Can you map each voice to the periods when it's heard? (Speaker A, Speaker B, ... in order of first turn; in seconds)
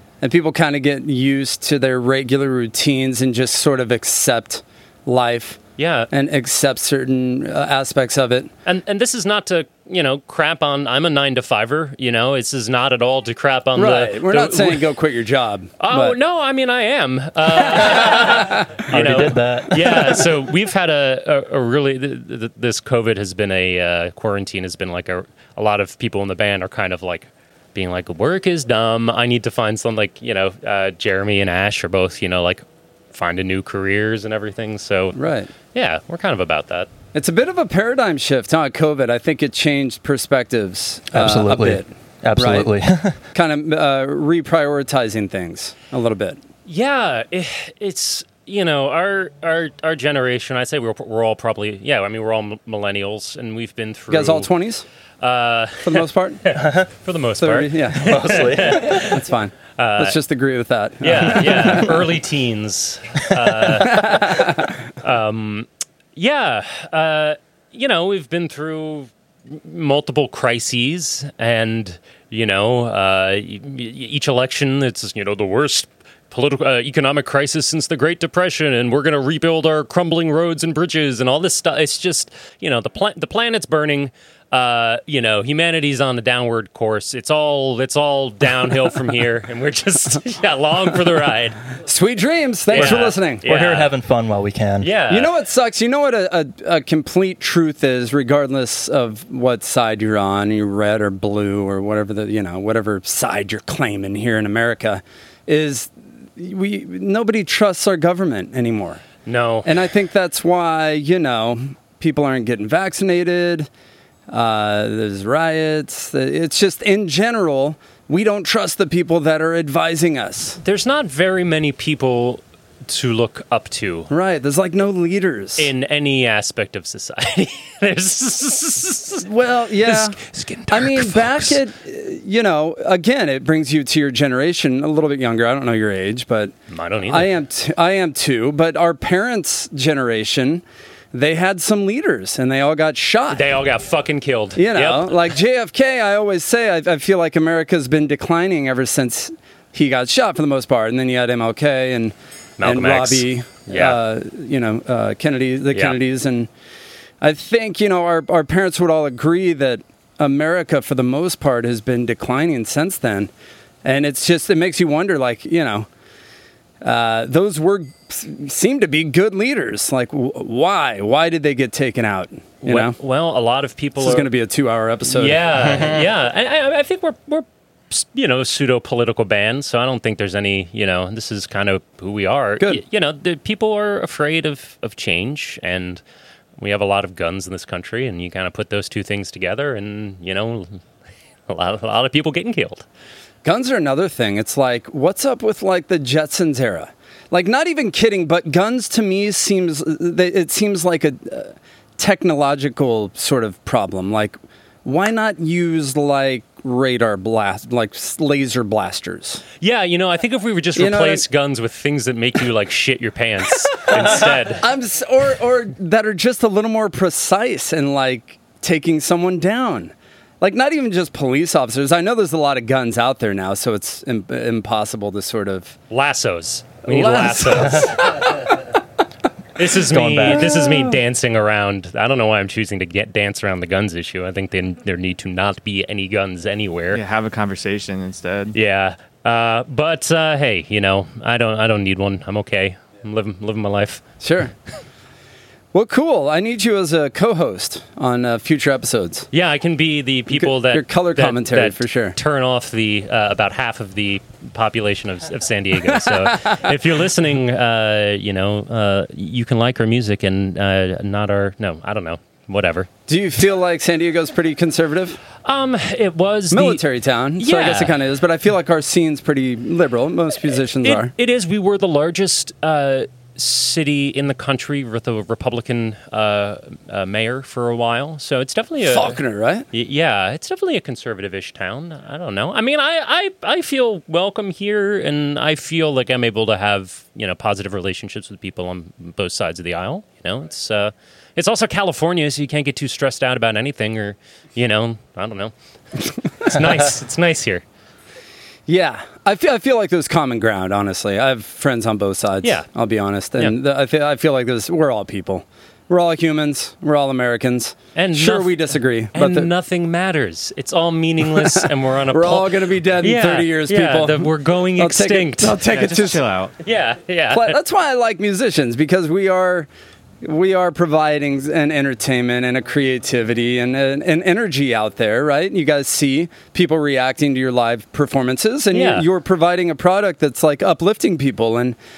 Speaker A: 0.2-8.5, 13.8-16.1, 17.7-18.6, 35.1-35.5, 37.1-42.7, 43.3-46.4, 54.1-54.9, 55.8-56.4, 57.4-62.0, 63.9-64.7, 91.8-93.4, 95.1-109.0, 109.6-113.7, 114.3-120.6, 124.1-125.7, 129.2-130.2, 130.7-136.5, 137.1-143.5, 144.6-156.5, 157.2-163.3, 163.8-165.9, 166.8-172.9, 174.0-175.4, 193.4-209.4, 210.8-211.2, 213.9-225.8, 226.8-228.3, 244.2-244.5, 245.7-249.3, 250.3-252.2, 256.1-256.5, 263.1-265.2, 266.5-271.1, 278.8-279.7, 298.7-309.5, 311.3-316.2, 317.3-319.7, 320.2-331.8
Speaker B: 5.8-6.1, 8.7-14.9, 15.8-35.2, 35.7-36.9, 46.6-54.5, 55.2-59.2, 59.8-60.2, 61.0-91.6, 92.7-93.9, 94.8-95.3, 109.2-109.7, 120.6-124.1, 125.6-129.3, 129.8-131.6, 136.7-137.3, 143.3-145.2, 152.6-154.0, 172.6-174.3, 175.1-186.0, 186.6-190.8, 191.5-192.8, 209.6-214.6, 225.9-228.4, 229.6-237.0, 238.5-244.0, 249.3-262.9, 265.4-266.8, 267.4-267.9, 270.8-279.2, 279.7-295.5, 296.4-297.6, 307.9-315.6, 316.6-317.6, 328.7-329.1
Speaker C: 18.9-20.3, 41.1-43.2, 56.5-56.9, 58.0-59.0, 92.7-94.9, 229.8-230.5
Speaker D: 236.9-238.6, 315.6-316.5